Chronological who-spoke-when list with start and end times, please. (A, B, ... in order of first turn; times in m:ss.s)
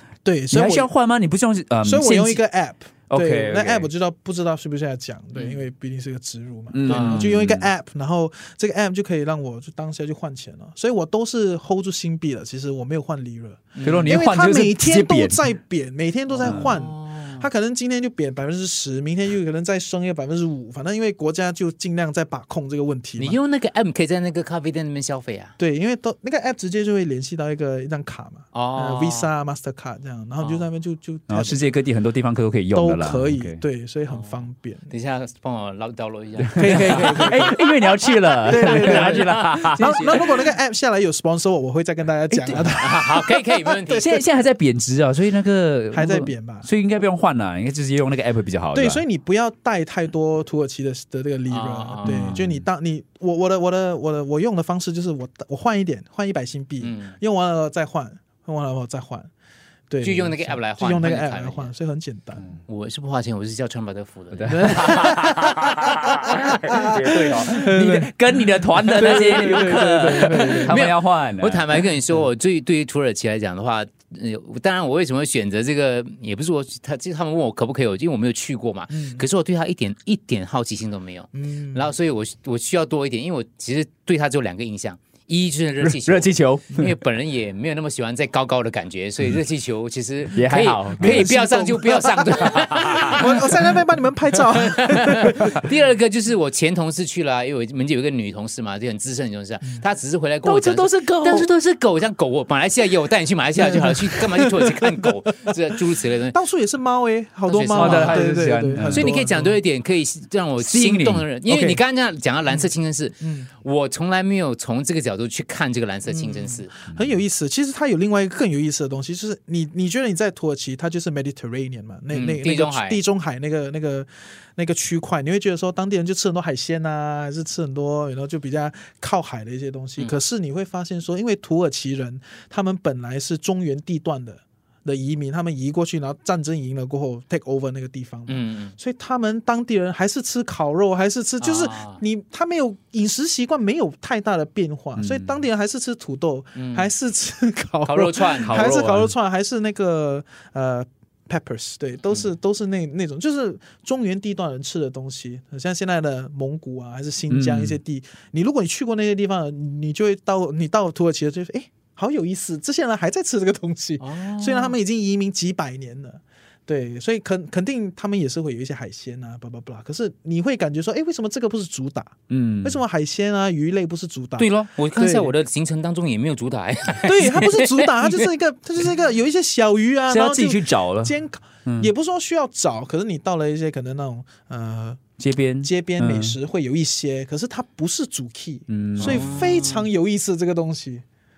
0:00.2-0:00.9 A
0:00.5-0:02.4 B
0:01.8-0:23.4 A
0:03.1-0:03.9 B
0:05.3-0:05.6 C
0:06.7-0:07.7 B
0:06.9-0:07.3 C
0:13.8-0:14.2 C
0:13.8-0:15.4 B
0:16.3-0:17.5 C
0:16.4-0:16.7 B
0:23.2-0:25.6 C
0:25.6-0:31.7 A
0:28.5-0:29.3 C
0:30.4-0:30.7 C
0:31.3-0:33.6 B
0:32.7-0:34.9 A
0:34.1-0:37.6 C
0:36.5-0:40.3 B
0:36.6-0:37.5 A
0:38.5-0:44.2 A
0:38.8-0:39.3 C
0:42.3-0:42.7 B
0:42.8-0:44.0 C
0:44.0-0:49.0 B
0:45.9-0:46.7 A
0:48.7-0:59.3 A
0:51.5-0:52.3 C
0:52.0-0:52.6 B
0:56.8-0:57.2 C
0:59.9-1:02.6 A
1:00.0-1:01.7 C
1:02.7-1:05.1 C
1:04.3-1:11.6 B
1:04.5-1:05.5 A
1:06.6-1:08.4 A
1:08.9-1:10.8 A
1:10.3-1:33.4 C
1:18.9-1:19.3 A
1:21.3-1:21.9 A
1:25.8-1:26.9 B
1:30.3-1:31.3 B
1:31.0-1:32.0 A
1:32.2-1:33.1 B
1:33.1-1:35.7 A
1:34.5-1:46.4 C
1:40.4-1:41.5 B
1:44.4-1:44.7 A
1:46.3-1:49.6 A
1:47.5-1:48.2 C
1:47.8-1:49.1 B
1:48.8-1:56.7 C
1:50.6-1:51.8 B
1:53.2-1:53.5 A
1:56.1-2:55.3 A
2:02.1-2:03.0 C
2:18.3-2:18.8 C
2:21.4-2:22.0 C
2:25.0-2:25.3 B
2:26.6-2:26.9 C
2:27.8-2:28.8 C
2:28.6-2:29.1 B
2:37.3-2:37.8 B
2:44.0-2:44.8 C
2:52.3-2:52.8 B
2:54.4-2:58.3 C
2:57.0-3:11.0 A
3:00.1-3:01.9 B
3:05.2-3:06.4 B
3:08.7-3:09.3 B
3:09.0-3:09.9 C